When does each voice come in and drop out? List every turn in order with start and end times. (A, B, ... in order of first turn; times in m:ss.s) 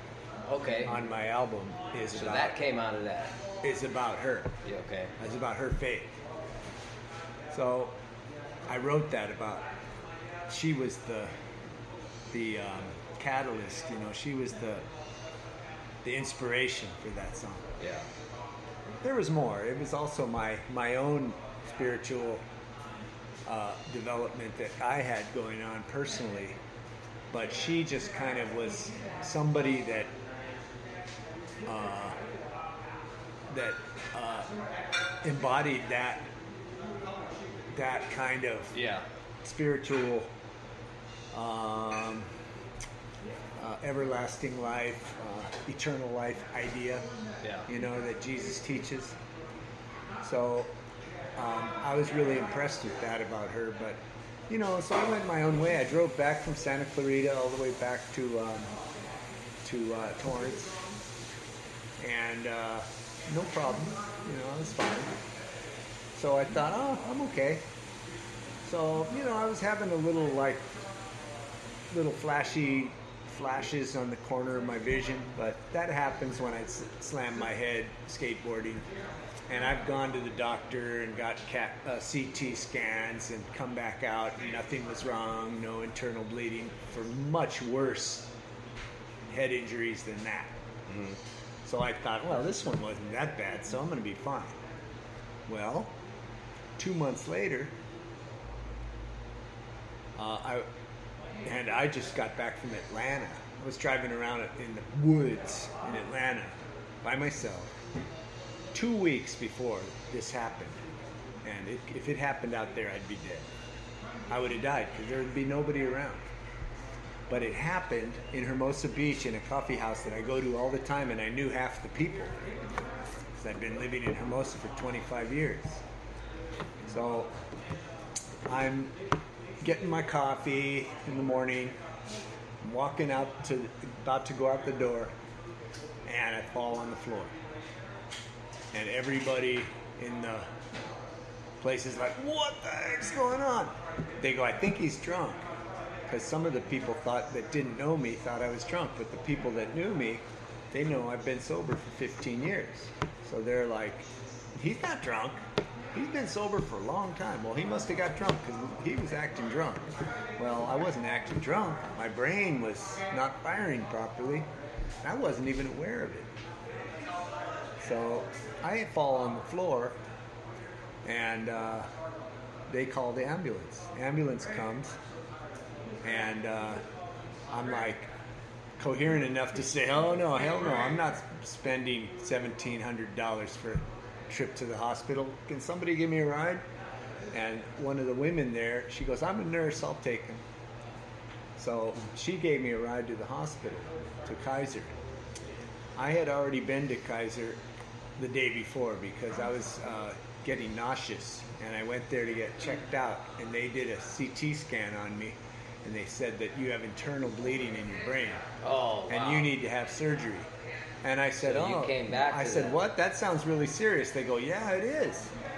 0:00.5-0:00.9 A
0:00.8-0:02.6 B
0:02.1-0:03.3 A
0:03.6-0:04.5 B
0:04.6-0:05.1 A
0:05.2-0:06.2 B
0:07.5-0:07.9 B
0:08.7-0:09.7 B
0:10.5-0:11.3 B
0:12.3-0:14.8 B
0:16.0-0:17.7 B
0:17.8-0:18.0 A
0:19.0-0:22.4 B
0:23.4-0:26.6 B
0:27.3-0:30.1 B
0:31.7-0:32.2 B
0:33.5-0:34.5 B
0:35.2-0:36.3 B
0:37.7-0:38.7 B
0:38.7-0:39.0 A
0:39.4-0:40.3 B
0:41.3-0:42.3 B
0:43.6-0:47.0 B
0:47.4-0:47.7 A
0:47.7-0:49.2 B
0:50.2-0:50.7 B
0:51.4-0:58.7 B
0:59.6-1:00.7 B
1:02.0-1:05.1 B
1:06.2-1:07.6 B
1:08.6-1:10.8 B
1:11.9-1:18.9 B
1:19.5-1:28.3 B
1:29.3-1:30.5 B
1:31.6-1:34.6 B
1:35.5-1:35.9 B
1:36.8-1:37.7 B
1:40.2-1:40.7 B
1:41.4-1:47.7 B
1:48.7-1:50.8 B
1:51.4-1:53.5 B
1:54.3-1:56.2 B
1:57.3-2:02.4 B
2:03.4-2:05.8 B
2:06.9-2:07.3 B
2:08.5-2:08.9 B
2:09.6-2:11.8 B
2:12.6-2:15.1 B
2:16.0-2:17.3 B
2:18.7-2:20.5 B
2:21.6-2:25.4 B
2:26.1-2:35.4 B
2:35.9-2:44.5 B
2:45.0-2:46.3 B
2:47.8-2:50.0 B
2:51.0-2:51.9 B
2:52.7-2:55.0 B
2:56.0-2:56.8 B
2:57.5-2:58.1 B
2:58.8-3:06.6 B
3:07.3-3:10.4 B
3:11.6-3:14.9 B
3:16.0-3:17.6 B
3:18.2-3:28.4 B
3:28.6-3:29.5 A
3:29.1-3:30.5 B
3:31.0-3:35.3 B
3:31.4-3:32.8 A